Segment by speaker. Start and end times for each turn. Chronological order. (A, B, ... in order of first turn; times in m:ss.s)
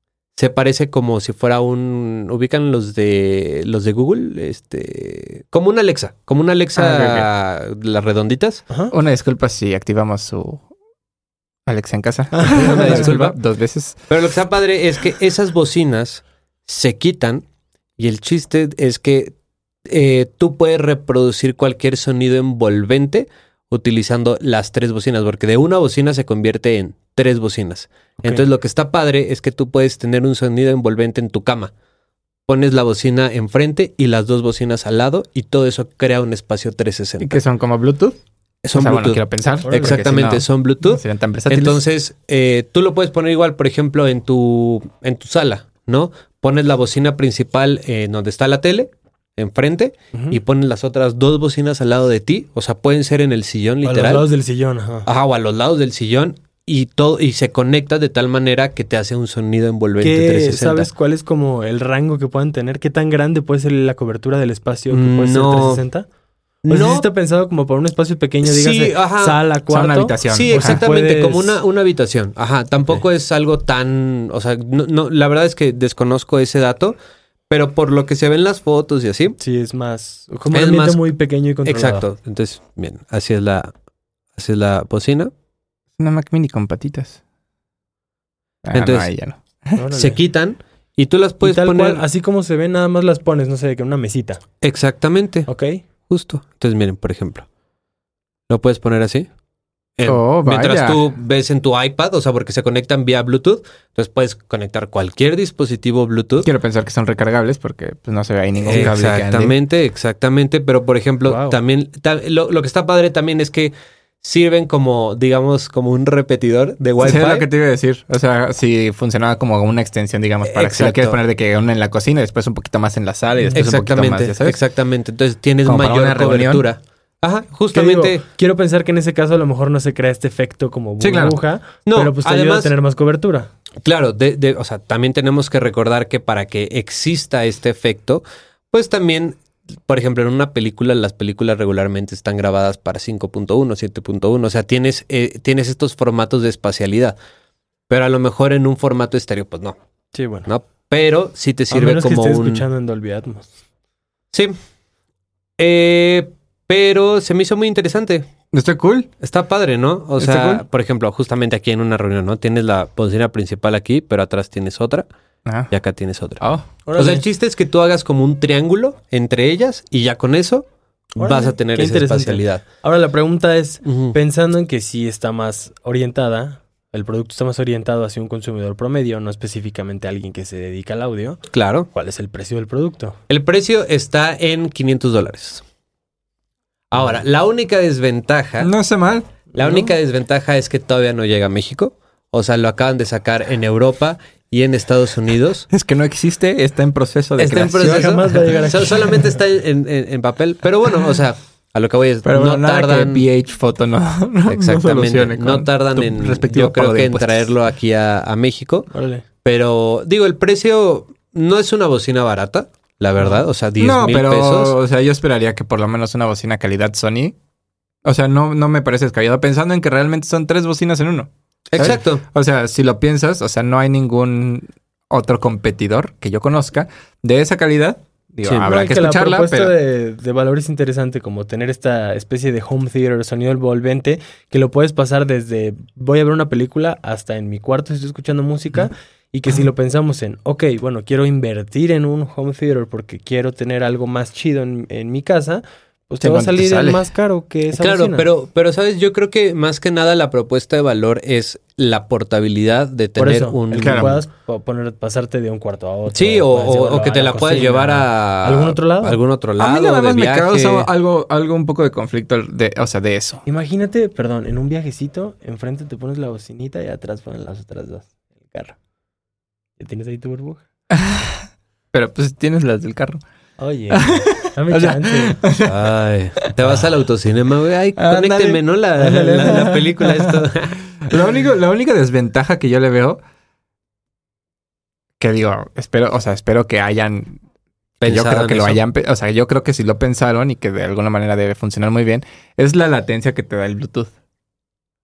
0:00.4-0:08.6 A
0:06.8-0:07.2 B
0:08.9-0:10.6 B
0:11.6-0:14.1 B
0:12.3-0:13.2 C
0:12.5-0:13.4 A
0:14.1-0:17.4 A
0:18.0-0:19.3 A
0:19.9-0:31.7 A
0:32.5-0:37.4 A
0:37.2-0:38.2 B
0:38.6-0:54.3 A
0:38.7-0:41.8 B
0:39.6-0:40.0 C
0:53.8-0:55.1 C
0:55.0-1:00.9 A
1:00.0-1:06.1 C
1:04.9-1:05.8 A
1:06.6-1:07.0 A
1:06.7-1:11.6 C
1:08.4-1:09.4 A
1:09.7-1:10.8 B
1:10.2-1:17.0 A
1:17.5-1:19.4 A
1:19.4-1:22.0 C
1:20.5-1:21.0 A
1:21.6-1:23.7 A
1:24.3-1:25.3 A
1:26.0-1:27.2 B
1:28.6-1:29.8 B
1:28.7-1:29.1 A
1:29.8-1:30.2 C
1:29.9-1:32.0 A
1:31.4-1:34.4 C
1:34.6-1:35.5 A
1:35.5-1:35.8 C
1:36.1-1:37.4 A
1:38.5-1:39.3 A
1:40.0-1:46.5 A
1:40.0-1:41.0 B
1:46.4-1:49.5 B
1:48.6-1:57.5 A
1:51.2-1:51.6 C
1:57.0-2:04.6 B
2:00.4-2:01.2 A
2:03.5-2:08.2 A
2:05.6-2:06.6 B
2:07.7-2:13.5 C
2:11.0-2:11.4 B
2:11.8-2:12.7 A
2:13.8-2:27.2 A
2:27.9-2:29.8 A
2:30.1-2:30.5 C
2:30.4-2:32.6 A
2:31.7-2:33.5 C
2:35.6-2:38.3 A
2:38.5-2:39.1 B
2:39.2-2:45.0 A
2:40.2-2:40.6 B
2:45.7-2:52.6 A
2:46.4-2:46.7 B
2:46.8-2:47.2 C
2:51.2-3:03.2 C
2:53.8-2:54.2 A
3:01.5-3:01.9 A
3:03.3-3:05.6 A
3:06.9-3:08.7 A
3:08.6-3:09.4 B
3:09.5-3:15.7 A
3:15.7-3:18.5 B
3:17.4-3:23.2 A
3:17.8-3:19.3 C
3:22.2-3:27.5 B
3:24.5-3:28.9 A
3:28.9-3:29.2 C
3:29.4-3:34.7 A
3:33.8-3:37.3 B
3:38.0-3:49.7 B
3:41.7-3:42.2 A
3:48.4-3:48.8 A
3:48.6-4:08.3 C
4:06.2-4:07.0 B
4:07.7-4:14.2 A
4:13.2-4:19.2 C
4:13.8-4:14.1 B
4:16.1-4:20.9 A
4:19.6-4:23.4 B
4:23.4-4:28.8 C
4:29.8-4:30.6 C
4:30.9-4:33.2 B
4:33.6-4:35.4 C
4:33.9-4:35.8 B
4:35.6-4:41.1 A
4:38.0-4:40.4 B
4:39.0-4:39.8 C
4:41.0-4:43.2 B
4:45.2-4:47.4 B
4:48.0-4:48.8 A
4:48.0-4:54.1 B